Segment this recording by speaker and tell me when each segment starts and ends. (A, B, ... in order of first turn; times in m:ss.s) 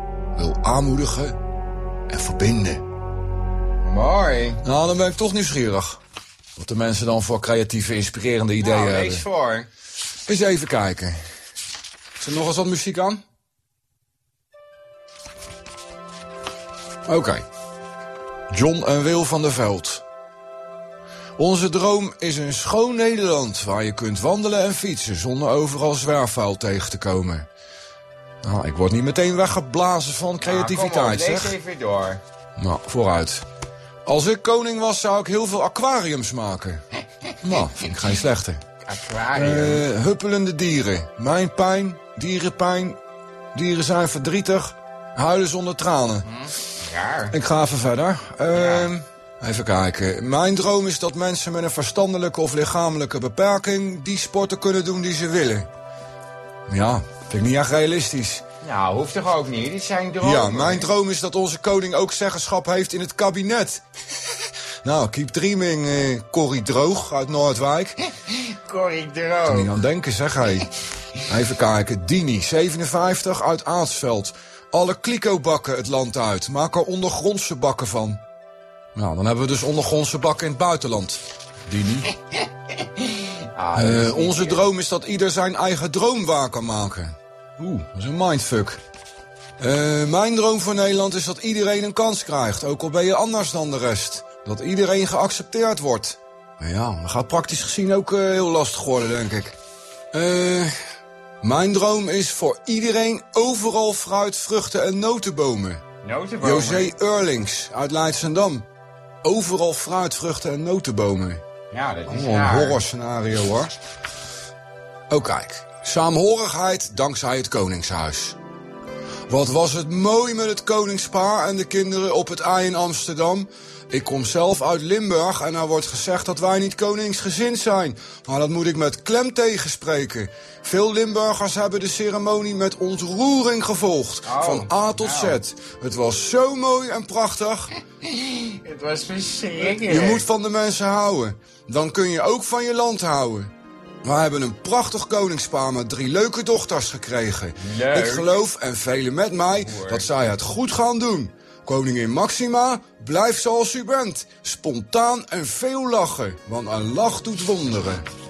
0:00.4-0:01.4 A
0:02.1-0:02.8 A
0:03.8-0:04.6 B
0:04.6-0:06.0 A
0:06.6-0:09.2 A
0:08.6-0:09.7 B
0:10.3-0:11.2 A
0:12.2-0:13.2 A
0:17.1-0:17.4 A
0:18.5-0:20.0 A
0:21.4-0:27.5 A
0:28.4-0:31.6 A
0:30.4-0:32.2 B
0:32.6-0:33.4 A
0:34.1-0:36.8 A
0:37.4-0:38.6 A
0:38.9-0:39.8 B
0:39.3-0:43.0 A
0:43.5-0:46.3 A
0:46.2-0:47.4 B
0:47.3-0:55.7 A
0:48.5-0:48.9 B
0:56.7-0:58.4 A
0:58.6-1:00.9 B
1:00.2-1:03.8 A
1:04.8-1:08.0 A
1:08.3-1:09.8 B
1:09.5-1:10.7 A
1:11.3-1:18.2 A
1:19.0-1:22.1 A
1:23.4-1:24.6 B
1:23.8-1:28.8 A
1:29.6-1:39.6 A
1:40.1-1:40.7 A
1:41.4-1:45.8 A
1:46.0-1:46.9 B
1:46.4-1:48.7 A
1:49.2-1:51.4 A
1:51.7-1:52.8 B
1:52.1-1:53.7 A
1:55.1-1:58.4 A
1:59.3-2:17.7 A
2:14.2-2:15.4 B
2:18.0-2:20.2 B
2:19.6-2:23.5 A
2:24.0-2:38.1 A
2:27.6-2:28.4 B
2:29.6-2:30.1 B